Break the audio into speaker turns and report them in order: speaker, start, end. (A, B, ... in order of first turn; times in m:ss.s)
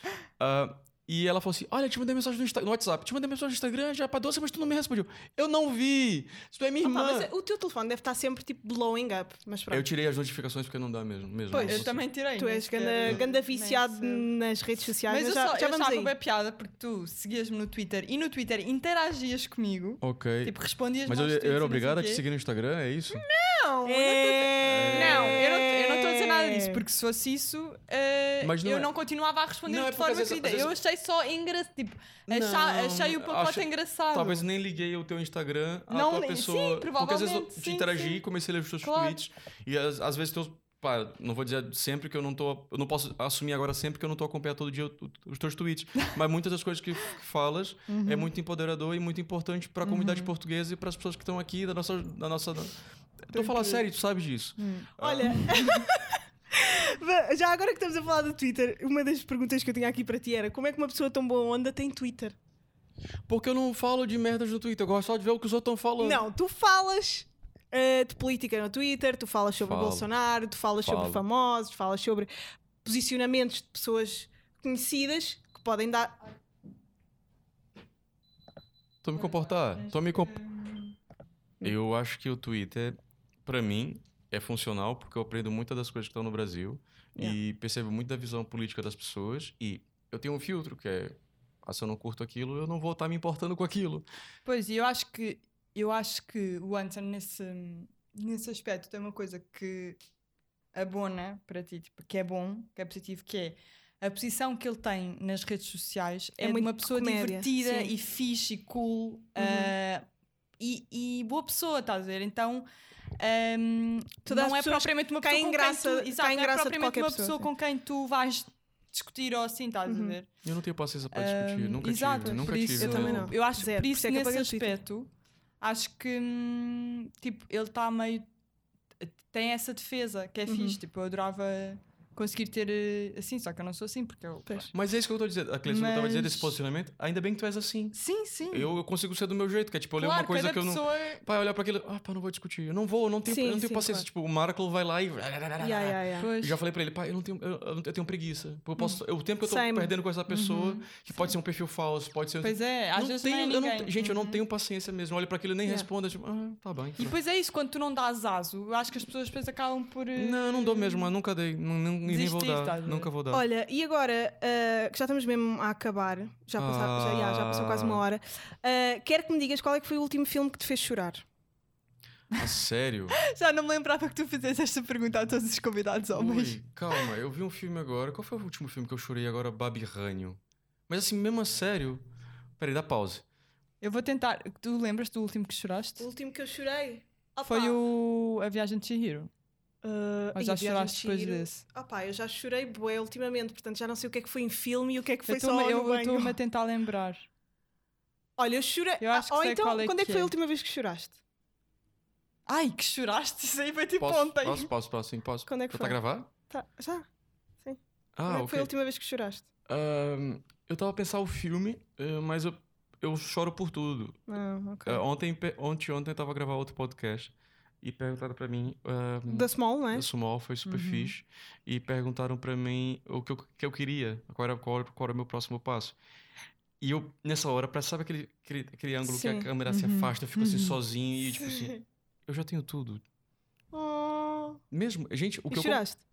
0:00.4-0:07.3 A
0:06.8-0:09.9 B
0:09.7-0:12.0 A
0:11.5-0:16.1 B
0:11.5-0:14.3 C
0:15.1-0:22.2 C
0:20.0-0:23.2 A
0:23.1-0:34.4 C
0:23.8-0:26.8 B
0:24.6-0:25.4 A
0:28.4-0:28.9 A
0:29.7-0:30.7 A
0:32.3-0:55.5 A
0:35.9-0:38.2 C
0:38.8-0:39.2 C
0:47.9-0:48.3 C
0:49.8-0:50.3 C
0:53.3-0:53.8 C
0:54.6-0:55.7 C
0:55.0-1:02.4 B
1:03.3-1:06.3 A
1:06.0-1:12.3 B
1:09.6-1:10.1 A
1:10.8-1:11.2 A
1:12.8-1:16.2 B
1:19.0-1:20.3 A
1:19.1-1:21.0 C
1:21.6-1:34.0 A
1:34.4-1:40.0 C
1:40.7-1:50.0 C
1:46.4-1:47.9 B
1:49.4-1:49.7 B
1:50.6-1:52.7 C
1:53.2-2:00.3 C
1:54.3-1:57.5 B
1:59.9-2:00.2 B
2:00.4-2:03.3 A
2:01.1-2:05.1 C
2:02.8-2:04.8 B
2:05.6-2:08.3 C
2:09.0-2:14.7 C
2:10.5-2:10.8 B
2:14.7-2:18.0 A
2:15.7-2:16.5 C
2:17.9-2:18.7 C
2:18.5-2:37.1 A
2:20.0-2:21.2 C
2:23.3-2:24.0 B
2:25.6-2:26.3 B
2:26.2-2:26.6 C
2:29.4-2:29.9 B
2:30.3-2:30.9 C
2:32.4-2:34.4 C
2:37.0-2:41.1 C
2:40.2-2:43.4 A
2:42.0-2:43.1 C
2:43.3-2:51.2 B
2:46.6-2:48.0 A
2:52.3-2:53.2 A
2:53.2-2:56.6 C
2:56.1-3:02.0 A
3:02.6-3:03.2 A
3:03.8-3:06.1 C
3:06.0-3:07.8 B
3:07.4-3:09.3 C
3:09.8-3:16.4 B
3:10.3-3:11.6 C
3:15.3-3:17.3 C
3:18.4-3:21.2 B
3:19.0-3:20.3 C
3:22.5-3:24.7 C
3:24.0-3:26.3 A
3:25.5-3:26.0 B
3:26.5-3:27.1 B
3:27.6-3:29.4 B
3:28.2-3:28.7 A
3:29.7-3:34.2 A
3:34.3-3:35.0 B
3:34.9-3:46.0 A
3:39.3-3:40.1 B
3:40.7-3:41.1 C
3:46.8-3:53.0 A
3:49.0-3:49.5 B
3:49.7-3:50.8 C
3:53.7-3:54.6 B
3:54.7-3:55.8 A
3:55.5-3:56.0 B